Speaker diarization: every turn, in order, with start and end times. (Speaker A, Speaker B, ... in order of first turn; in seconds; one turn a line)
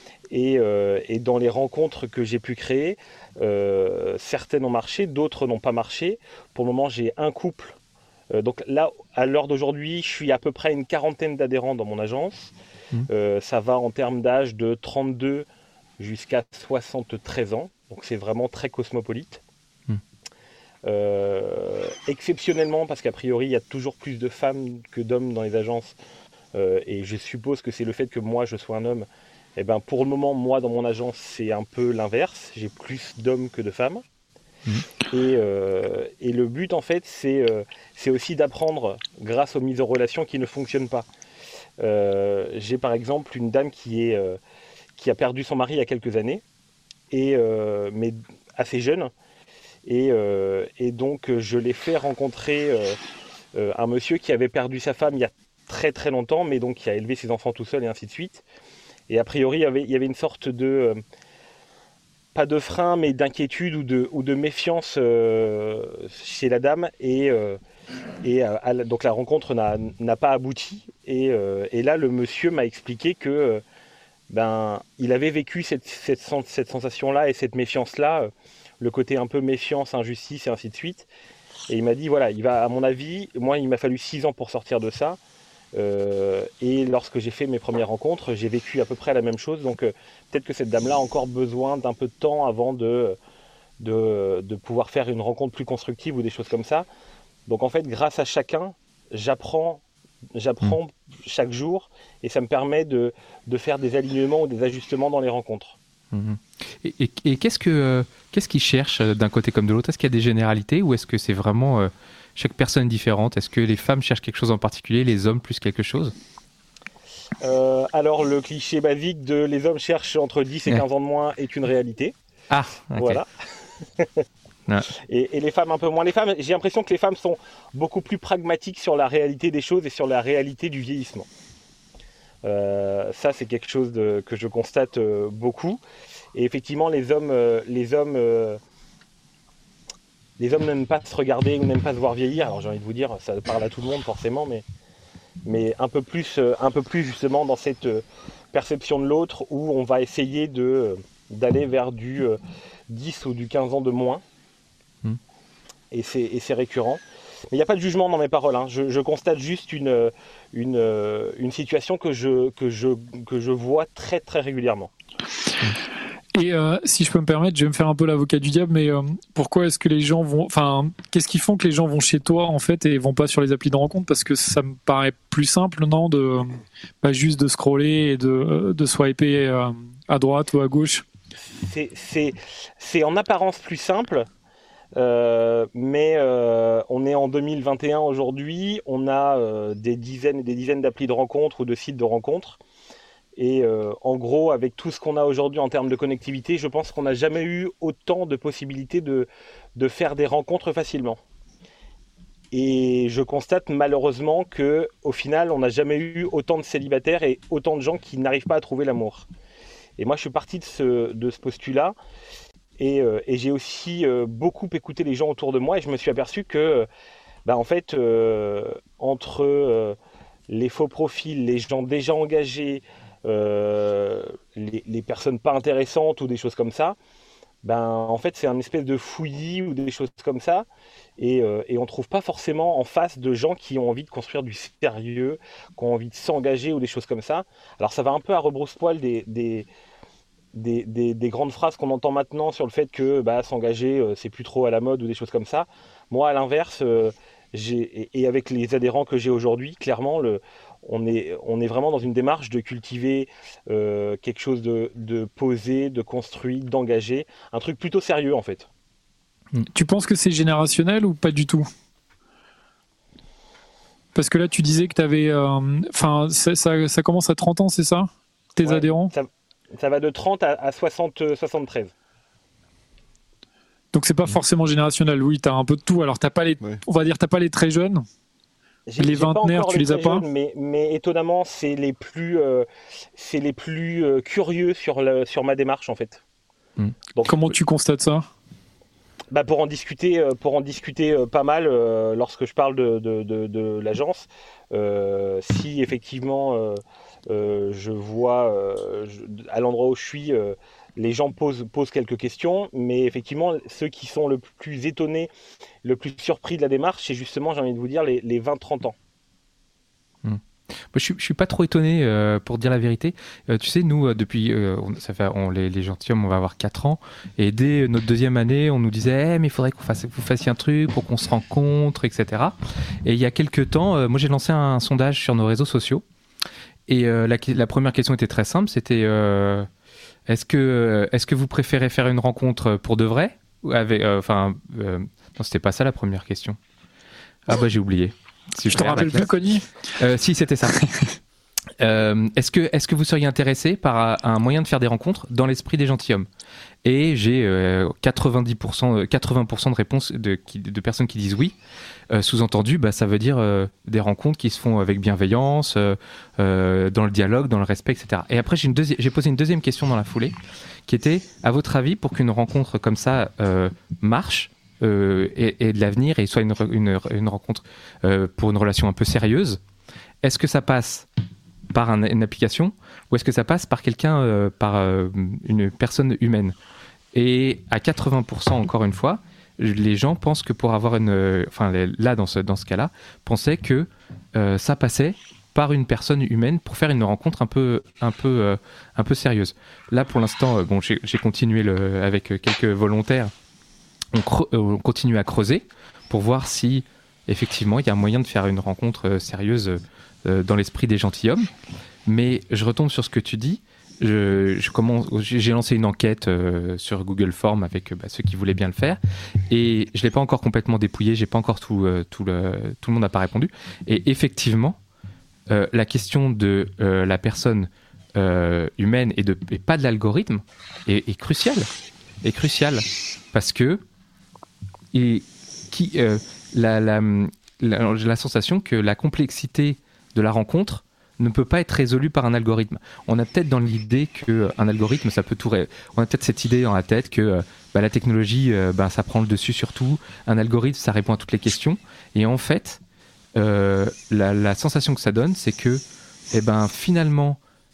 Speaker A: 0.3-7.8
Speaker A: 8.3-12.5
Speaker A: 13.1-15.5
Speaker A: 16.0-19.4
Speaker A: 20.8-25.9
Speaker A: 26.5-34.0
Speaker A: 35.1-41.1
Speaker A: 41.8-44.4
Speaker A: 45.0-46.4
Speaker A: 47.1-49.1
Speaker A: 49.9-53.0
Speaker A: 53.5-58.4
Speaker A: 59.1-61.0
Speaker A: 62.3-67.6
Speaker A: 68.2-73.6
Speaker A: 74.3-81.1
Speaker A: 81.7-85.2
Speaker A: 85.7-93.2
Speaker A: 93.8-96.9
Speaker A: 97.5-99.8
Speaker A: 100.3-105.8
Speaker B: 106.1-116.1
Speaker A: 117.4-122.1
Speaker B: 122.5-123.2
Speaker A: 123.0-123.3
Speaker A: 125.1-131.3
Speaker A: 132.4-135.8
Speaker A: 136.3-138.6
Speaker A: 140.4-144.6
Speaker A: 145.4-152.4
Speaker A: 152.9-154.2
Speaker A: 155.9-164.9
Speaker C: 166.3-181.1
Speaker A: 181.5-184.3
Speaker A: 185.0-192.6
Speaker A: 193.4-201.2
Speaker A: 202.5-209.3
Speaker A: 210.0-211.9
Speaker A: 212.8-216.9
Speaker A: 217.4-220.0
Speaker A: 220.5-227.0
Speaker A: 227.6-230.7
Speaker A: 231.2-239.7
Speaker A: 240.5-258.7
Speaker C: 259.7-261.7
Speaker C: 264.1-269.1
Speaker A: 268.6-271.9
Speaker C: 273.9-278.0
Speaker A: 278.9-286.2
Speaker C: 279.0-280.3
Speaker A: 287.1-287.6
Speaker C: 287.2-288.3
Speaker A: 289.3-305.3
Speaker A: 305.8-309.0
Speaker B: 310.2-326.0
Speaker B: 326.9-329.7
Speaker B: 330.3-336.6
Speaker B: 337.5-339.4
Speaker C: 338.7-339.7
Speaker B: 340.0-340.8
Speaker C: 340.8-341.0
Speaker B: 341.8-346.3
Speaker B: 346.8-351.6
Speaker B: 352.1-360.4
Speaker B: 360.9-369.6
Speaker B: 370.2-371.1
Speaker B: 371.7-376.6
Speaker B: 377.1-393.3
Speaker B: 394.1-401.5
Speaker B: 402.1-414.8
Speaker B: 415.5-421.7
Speaker B: 422.2-423.8
Speaker B: 424.9-442.8
Speaker B: 443.4-447.4